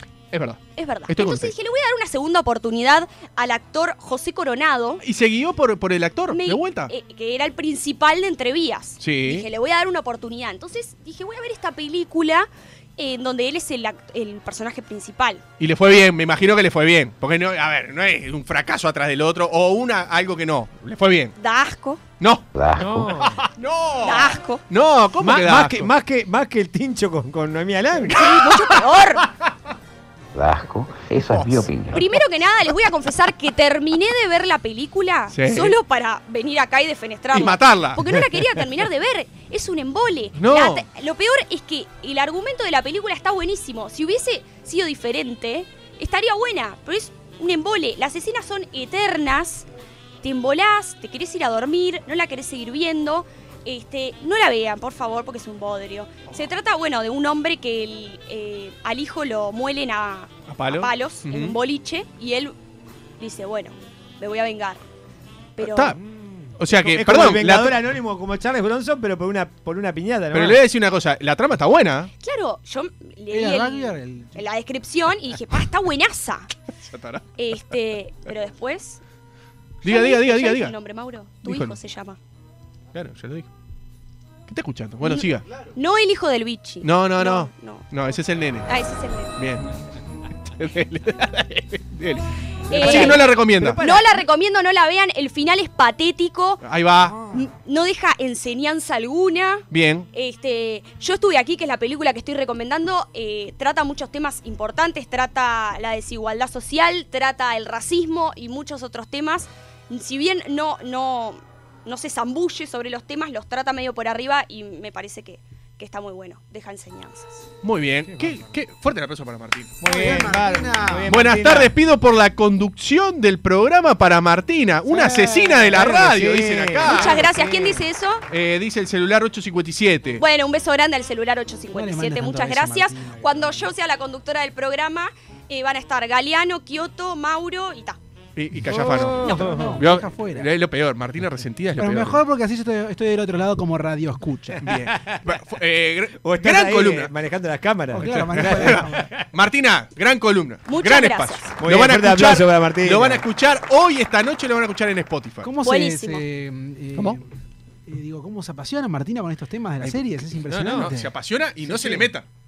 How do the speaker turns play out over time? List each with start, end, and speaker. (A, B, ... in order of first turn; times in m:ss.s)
0:00.3-0:01.5 A
0:00.7-0:05.0 B
0:05.0-0:06.9 A
0:06.3-0:15.4 B
0:09.0-0:09.5 A
0:15.6-0:21.3 A
0:21.4-0:22.0 B
0:22.2-0:22.5 A
0:22.5-0:23.1 C
0:22.7-0:23.5 D
0:23.2-0:25.9 A
0:24.0-0:24.6 B
0:25.2-0:28.3 D
0:28.1-0:29.5 A
0:28.1-0:29.3 B
0:30.3-0:32.0 C
0:31.3-0:31.6 A
0:31.9-0:49.7 B
0:35.3-0:35.8 A
0:37.3-0:38.0 A
0:40.4-0:40.8 A
0:50.2-1:02.5 B
1:00.5-1:01.6 A
1:03.2-1:04.8 B
1:05.6-1:05.9 B
1:05.6-1:06.0 A
1:05.9-1:10.6 D
1:06.6-1:07.8 A
1:10.3-1:12.1 A
1:12.2-1:16.5 B
1:13.3-1:14.4 E
1:16.8-1:17.2 A
1:17.4-1:19.0 B
1:19.8-1:20.7 A
1:19.8-1:22.2 B
1:21.4-1:21.8 A
1:22.9-1:23.5 A
1:24.5-1:25.5 A
1:25.0-1:27.9 B
1:26.8-1:28.7 A
1:28.7-1:29.3 B
1:29.4-1:29.6 A
1:30.5-1:33.8 A
1:32.7-1:36.6 B
1:32.7-1:34.1 D
1:36.6-1:37.2 A
1:37.3-1:57.4 B
1:39.7-1:40.1 A
1:57.6-1:59.8 A
1:58.1-1:58.5 E
1:59.8-2:01.1 E
1:59.8-2:01.7 D
2:01.0-2:07.3 A
2:04.9-2:05.8 E
2:05.2-2:07.8 D
2:06.8-2:08.2 B
2:08.3-2:10.2 A
2:10.2-2:18.0 B
2:11.7-2:13.7 E
2:18.4-2:22.2 A
2:18.6-2:19.9 D
2:19.2-2:19.5 B
2:19.2-2:20.5 E
2:21.8-2:24.6 E
2:24.6-2:27.1 A
2:24.8-2:25.2 D
2:26.2-2:29.1 D
2:27.9-2:29.1 E
2:28.0-2:35.5 A
2:30.7-2:31.5 B
2:31.6-2:33.2 D
2:35.4-2:37.3 E
2:35.6-2:36.2 B
2:37.9-2:42.1 E
2:39.8-2:42.3 A
2:40.7-2:40.9 D